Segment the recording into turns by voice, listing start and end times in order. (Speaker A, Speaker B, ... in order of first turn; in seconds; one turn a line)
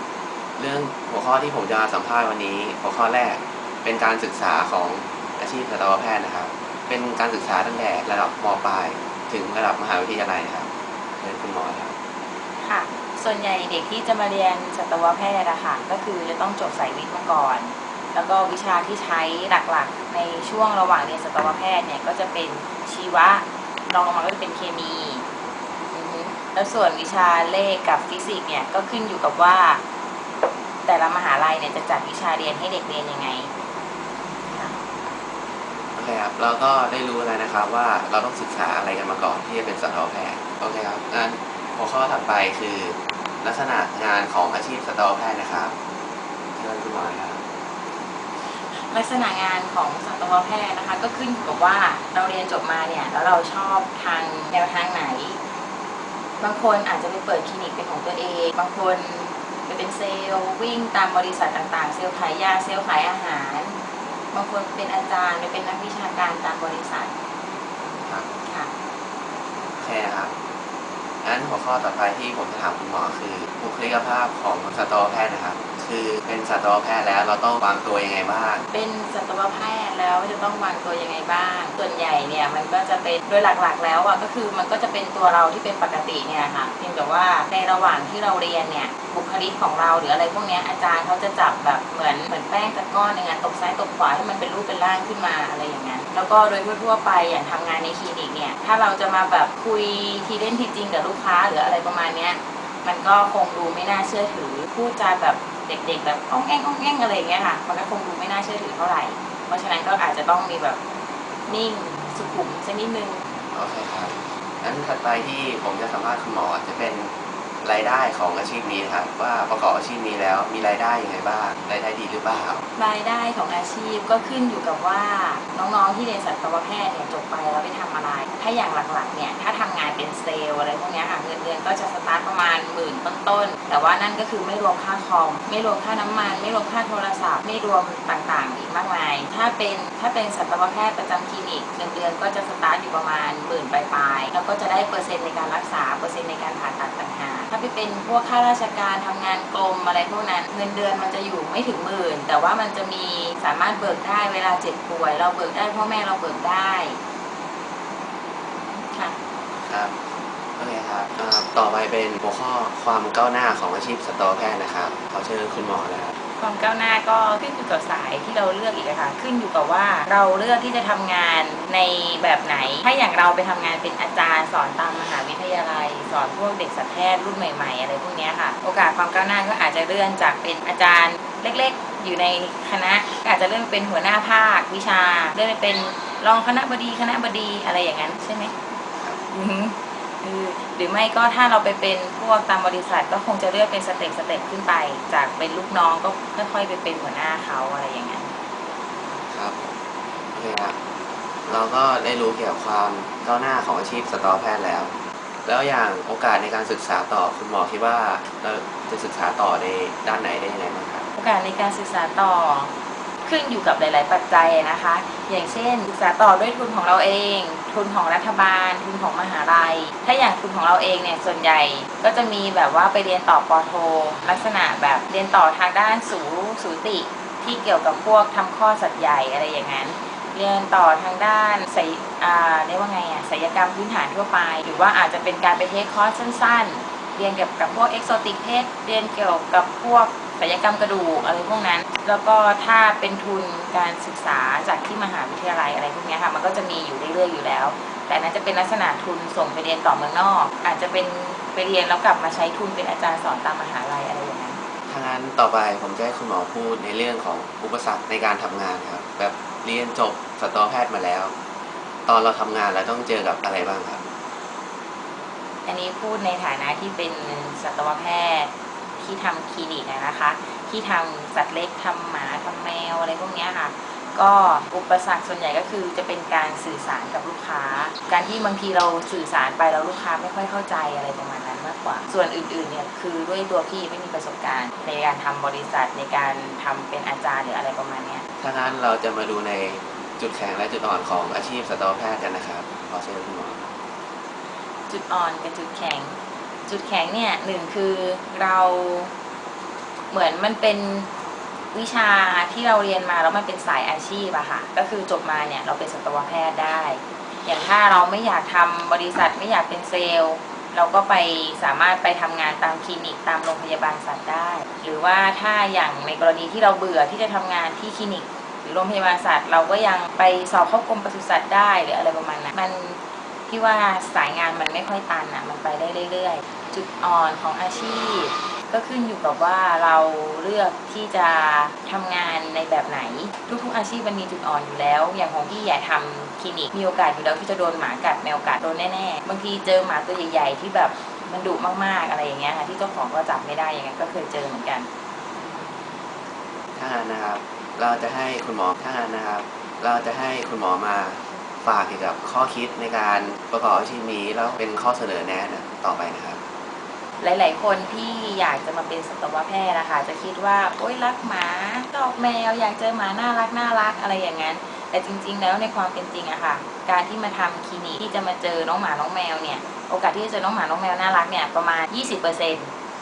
Speaker A: 0.6-11.9
Speaker B: 12.6-25.2
Speaker B: 25.9-29.8
Speaker B: 30.8-33.5
Speaker B: 34.4-34.8
Speaker A: 36.0-45.7
Speaker A: 46.5-47.4
Speaker B: 48.4-55.4
Speaker B: 56.4-63.8
Speaker B: 64.3-67.1
Speaker A: 68.0-68.3
Speaker B: 68.4-68.7
Speaker A: 69.8-70.3
Speaker A: 71.2-78.7
Speaker B: 78.7-110.8
Speaker B: 111.5-113.3
Speaker A: 113.5-122.6
Speaker B: 122.8-157.0
Speaker B: 158.7-159.2
Speaker A: 159.7-160.0
Speaker A: 160.6-166.1
Speaker B: 166.4-188.5
Speaker B: 189.3-198.3
Speaker A: 199.3-199.8
Speaker A: 200.3-200.7
Speaker A: 201.4-204.9
Speaker A: 205.4-211.1
Speaker B: 211.2-212.7
Speaker B: 213.2-254.6
Speaker A: 254.9-261.3
Speaker A: 262.1-264.0
Speaker B: 265.6-288.2
Speaker A: 288.4-293.7
Speaker B: 294.9-299.1
Speaker B: 300.1-301.1
Speaker B: 301.7-344.9
Speaker A: 346.8-356.4
Speaker B: 357.2-372.7